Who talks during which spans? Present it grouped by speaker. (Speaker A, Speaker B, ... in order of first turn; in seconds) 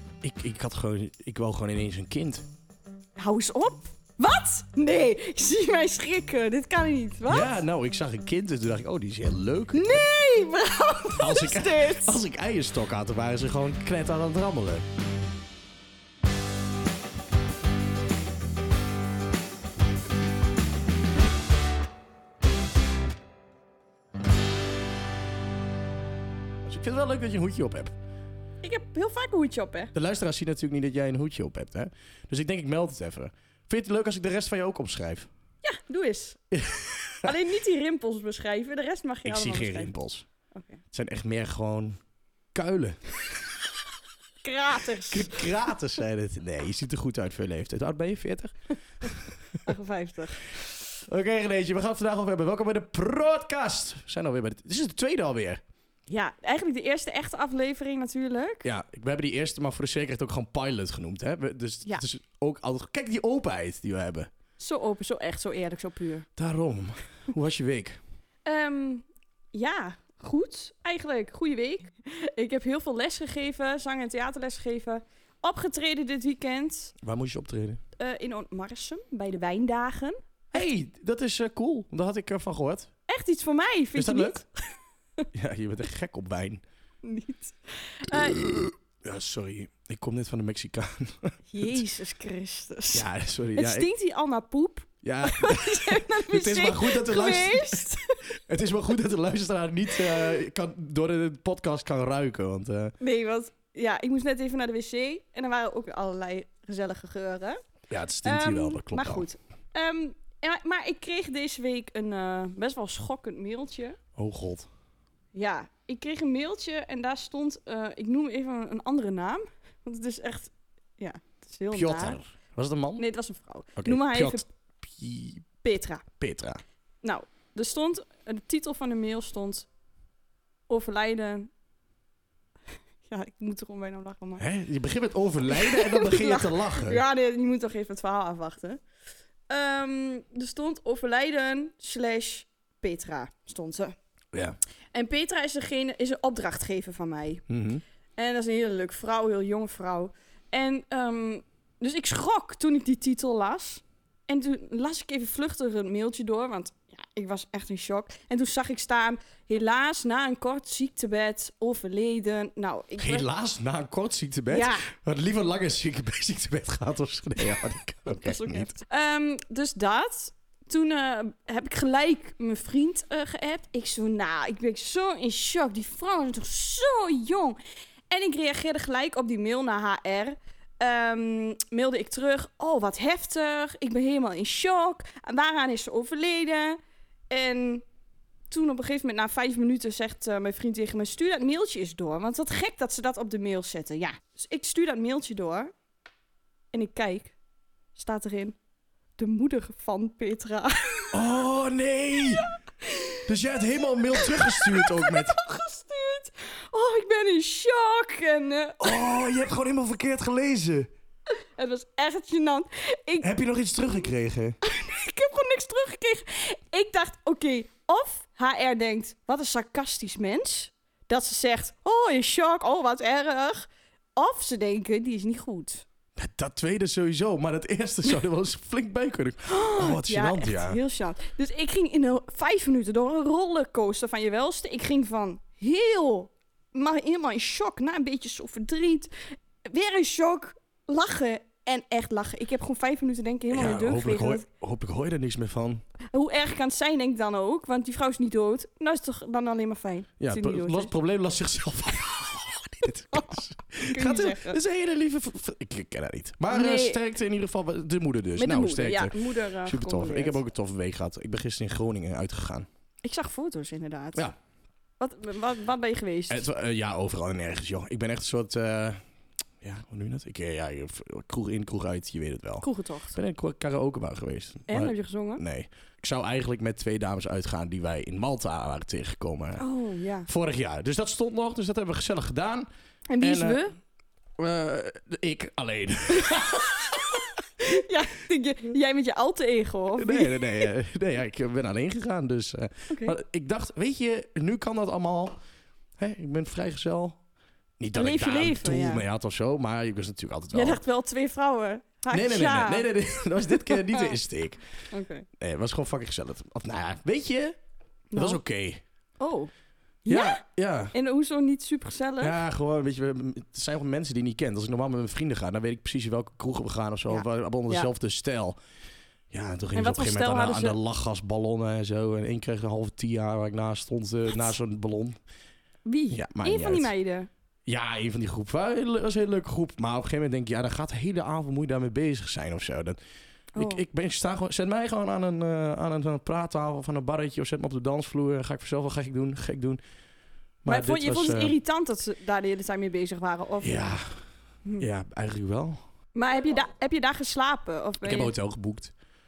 Speaker A: 0.2-2.5, 7.3-10.0, 11.2-14.8, 26.7-27.9, 29.9-35.3, 36.5-37.3, 39.2-40.3, 40.9-42.0, 42.5-43.0, 45.1-49.6, 51.1-55.6, 58.6-64.3, 66.4-68.0, 77.0-77.8, 80.5-82.9, 84.0-84.4, 85.3-86.6, 88.2-91.8, 92.9-93.9, 95.0-103.0, 107.9-109.3, 114.2-114.7, 121.7-123.0, 123.8-125.5, 126.2-126.6, 134.4-137.0, 147.5-147.8, 163.0-168.7, 201.1-202.5, 203.2-205.4, 208.8-210.9, 213.2-214.6, 226.2-230.8, 243.5-245.8, 250.2-262.7, 266.3-269.0, 269.6-279.6, 280.3-282.7, 283.2-283.6, 284.4-287.2, 290.0-295.4, 296.0-297.2, 297.8-300.8, 302.1-304.6, 305.4-307.6, 308.1-308.8, 310.1-310.9, 312.2-318.6, 319.3-325.2, 326.1-326.9, 327.7-333.0, 333.6-339.8, 340.6-341.5, 343.6-344.2, 344.8-345.8, 348.0-348.9
Speaker B: 3.2-7.5, 9.7-12.2, 28.6-29.9, 35.6-36.4, 37.2-39.9, 40.5-40.8, 44.4-45.5, 49.6-50.7, 56.1-58.7, 64.6-66.3, 68.5-76.9, 78.0-80.7, 83.1-84.5, 87.0-88.4, 91.5-98.2, 103.0-107.6, 108.2-114.0, 115.3-122.2, 123.0-124.4, 125.6-126.0, 127.0-129.7, 130.7-131.5, 133.1-134.4, 135.5-138.8, 139.5-143.9, 144.9-147.4, 148.2-163.3, 164.5-164.8, 168.1-177.6, 178.1-186.8, 187.3-187.8, 188.5-195.7, 196.7-197.3, 198.0-198.6, 199.2-201.2, 202.8-203.2, 204.2-209.0, 211.3-213.4, 214.6-225.8, 229.5-244.4, 246.1-250.9, 253.9-254.6, 256.5-257.0, 258.4-260.4, 263.0-264.2, 265.0-266.5, 272.6-273.2, 274.7-275.4, 279.6-280.3, 283.1-283.7, 287.6-290.7, 292.9-293.1, 297.9-299.0, 300.5-304.2, 304.9-305.3, 308.1-308.4, 309.2-309.5, 310.1-310.4, 310.9-312.4, 317.1-317.9, 319.8-320.8, 325.9-327.3, 333.6-333.8, 340.7-343.9, 346.1-348.3